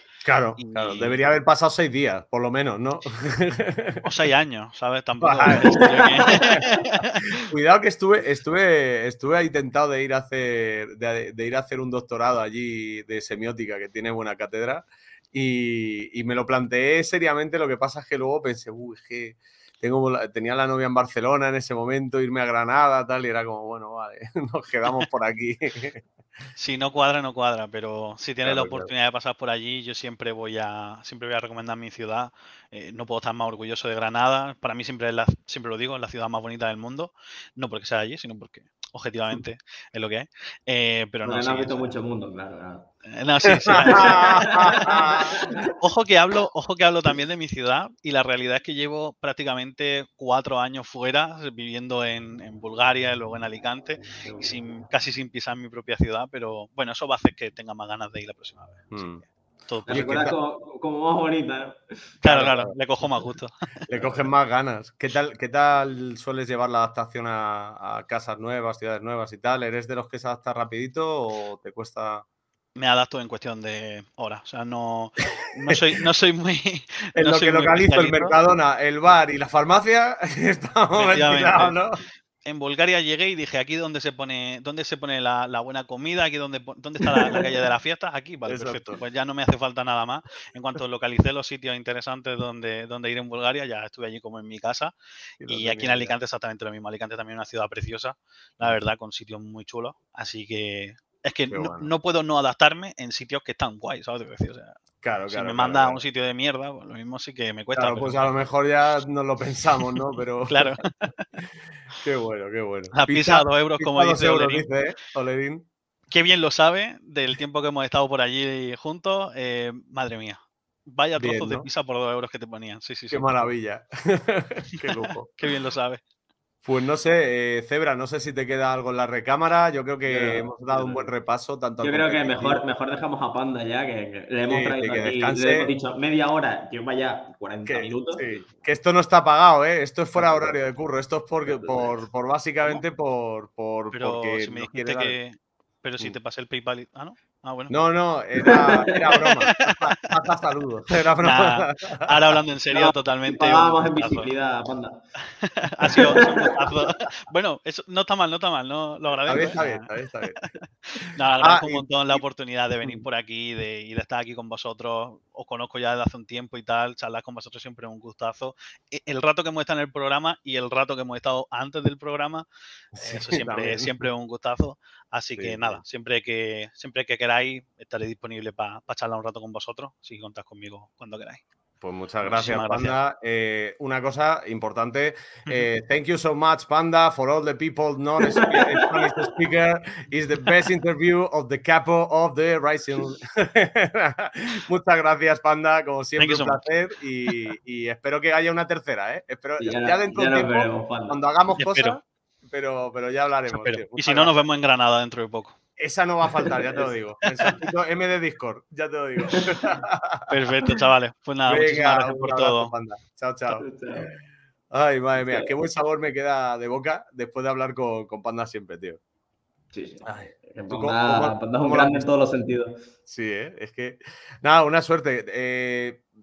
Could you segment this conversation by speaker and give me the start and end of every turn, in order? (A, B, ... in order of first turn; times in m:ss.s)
0:00.2-0:04.0 A
0:00.6-0:01.2 B
0:04.0-0:07.4 B
0:05.2-0:26.0 A
0:26.6-0:41.9 B
0:28.4-0:28.9 A
0:41.2-0:42.9 C
0:43.1-0:45.0 B
0:43.7-0:45.5 A
0:43.9-0:45.6 C
0:45.8-0:59.0 B
0:54.2-0:54.5 C
0:58.9-0:59.2 A
0:59.7-1:00.4 B
0:59.9-1:00.3 A
0:59.9-1:02.4 C
1:02.2-1:03.6 B
1:02.3-1:02.8 A
1:03.9-1:12.2 A
1:12.8-1:18.4 B
1:17.2-1:22.0 A
1:20.9-1:21.8 B
1:22.4-1:34.9 B
1:28.5-1:29.0 A
1:35.4-1:36.2 A
1:35.4-1:44.8 B
1:41.5-1:41.9 A
1:45.0-1:46.0 A
1:45.3-1:48.3 B
1:47.8-1:50.8 A
1:50.5-1:51.3 B
1:52.0-1:55.7 A
1:52.9-1:54.7 B
1:56.1-2:03.5 B
2:01.2-2:01.7 A
2:03.1-2:05.3 A
2:04.9-2:06.0 B
2:06.6-2:12.6 A
2:10.1-2:11.1 C
2:11.8-2:18.3 C
2:14.5-2:15.7 A
2:17.7-2:25.2 A
2:20.2-2:20.6 C
2:21.4-2:22.0 C
2:23.9-2:27.8 B
2:27.7-2:32.2 A
2:28.4-2:29.3 C
2:29.6-2:30.0 B
2:31.2-2:34.3 B
2:32.8-2:35.0 C
2:35.4-2:40.6 B
2:35.9-2:36.5 C
2:39.3-2:40.4 A
2:41.1-3:01.4 B
2:41.4-2:42.2 A
2:53.0-2:54.1 A
2:55.3-2:55.8 A
3:01.8-3:24.3 A
3:02.2-3:03.0 B
3:08.4-3:08.9 C
3:16.2-3:16.6 B
3:19.6-3:21.2 C
3:21.6-3:22.0 B
3:23.5-3:25.6 B
3:25.8-3:30.4 A
3:26.4-3:26.9 C
3:29.3-3:29.7 C
3:30.3-3:32.7 B
3:31.5-3:34.1 A
3:33.5-3:34.1 C
3:34.7-3:39.0 A
3:35.2-3:35.5 C
3:39.7-3:42.8 C
3:40.0-3:42.1 A
3:43.1-3:46.0 A